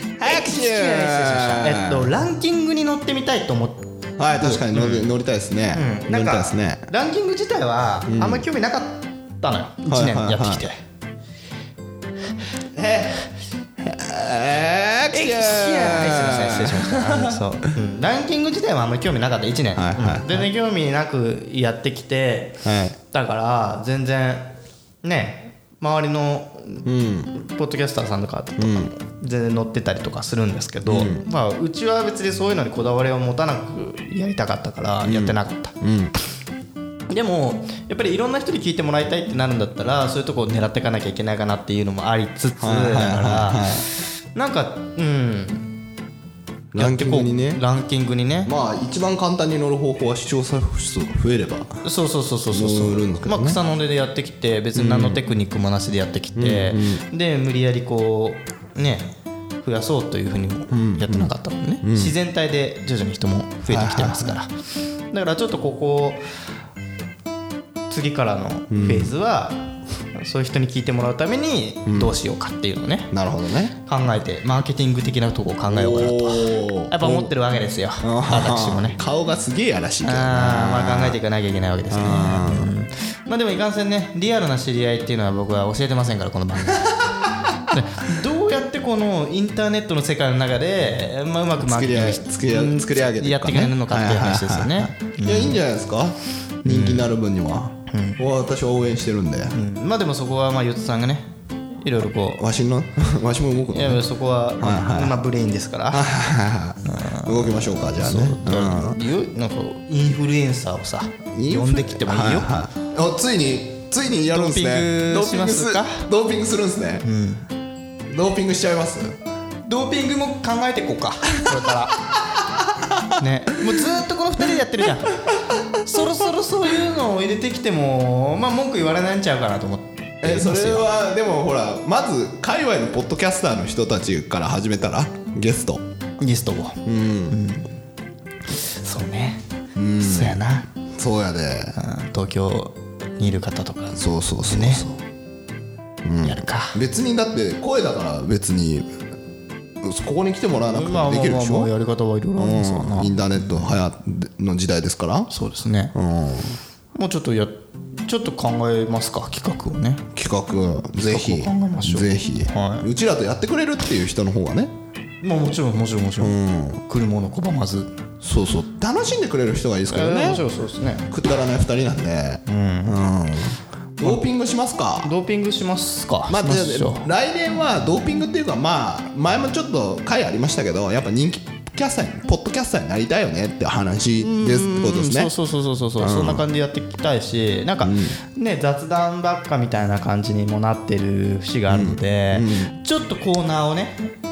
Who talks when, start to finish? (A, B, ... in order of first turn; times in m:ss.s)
0:00.2-0:02.2 A
0:00.2-0:05.1 B
0:04.2-0:06.9 A
0:05.7-0:10.8 B
0:08.0-0:08.4 A
0:09.9-0:10.7 A
0:12.8-0:13.2 A
0:13.8-0:17.4 A
0:15.1-0:24.5 B
0:19.8-0:20.5 A
0:22.6-0:23.0 A
0:25.0-0:35.7 B
0:26.8-0:27.3 A
0:28.6-0:28.9 A
0:30.9-0:31.2 A
0:35.0-0:36.1 A
0:37.1-0:45.7 B
0:42.6-0:43.9 A
0:46.7-0:47.6 A
0:46.8-0:48.5 B
0:48.4-0:51.8 A
0:51.8-1:04.5 B
0:52.5-0:53.6 A
0:54.8-0:55.2 A
0:56.4-0:57.0 A
1:00.7-1:02.2 A
1:03.7-1:04.4 A
1:05.1-1:06.2 B
1:07.9-1:13.1 B
1:08.7-1:09.1 A
1:11.9-1:12.2 A
1:13.1-1:13.8 A
1:13.8-1:19.0 B
1:15.7-1:17.3 A
1:18.0-1:21.2 A
1:20.0-1:26.9 B
1:21.9-1:22.7 A
1:27.7-1:35.6 B
1:31.6-1:39.6 A
1:36.6-1:37.1 B
1:37.9-1:38.2 B
1:39.5-1:41.3 B
1:41.8-1:42.4 B
1:42.4-1:44.0 A
1:43.7-1:46.1 B
1:44.6-1:45.2 A
1:45.9-1:49.0 A
1:46.8-1:52.5 B
1:51.3-1:57.1 A
1:54.3-1:56.1 B
1:57.0-1:57.4 B
1:58.1-1:59.2 A
1:59.6-2:02.0 B
2:02.1-2:03.0 A
2:03.2-2:10.9 B
2:10.2-2:15.8 A
2:16.2-2:17.7 B
2:16.8-2:17.4 A
2:18.5-2:19.4 B
2:19.8-2:21.8 A
2:20.0-2:20.7 B
2:21.8-2:24.8 B
2:23.9-2:25.0 A
2:26.0-2:28.9 A
2:26.2-2:26.8 B
2:29.8-2:31.7 A
2:30.7-2:33.8 B
2:32.4-2:35.3 A
2:35.3-2:35.9 B
2:35.9-2:36.6 A
2:37.0-2:40.1 B
2:40.1-2:44.7 A
2:41.0-2:42.9 B
2:45.2-2:47.9 B
2:46.2-2:46.8 A
2:48.2-2:50.4 A
2:49.9-2:51.1 B
2:51.1-2:55.1 A
2:52.5-2:53.0 B
2:55.0-2:57.1 B
2:56.3-3:05.3 A
3:04.2-3:14.0 B
3:06.0-3:06.4 A
3:07.8-3:08.2 A
3:11.7-3:12.7 A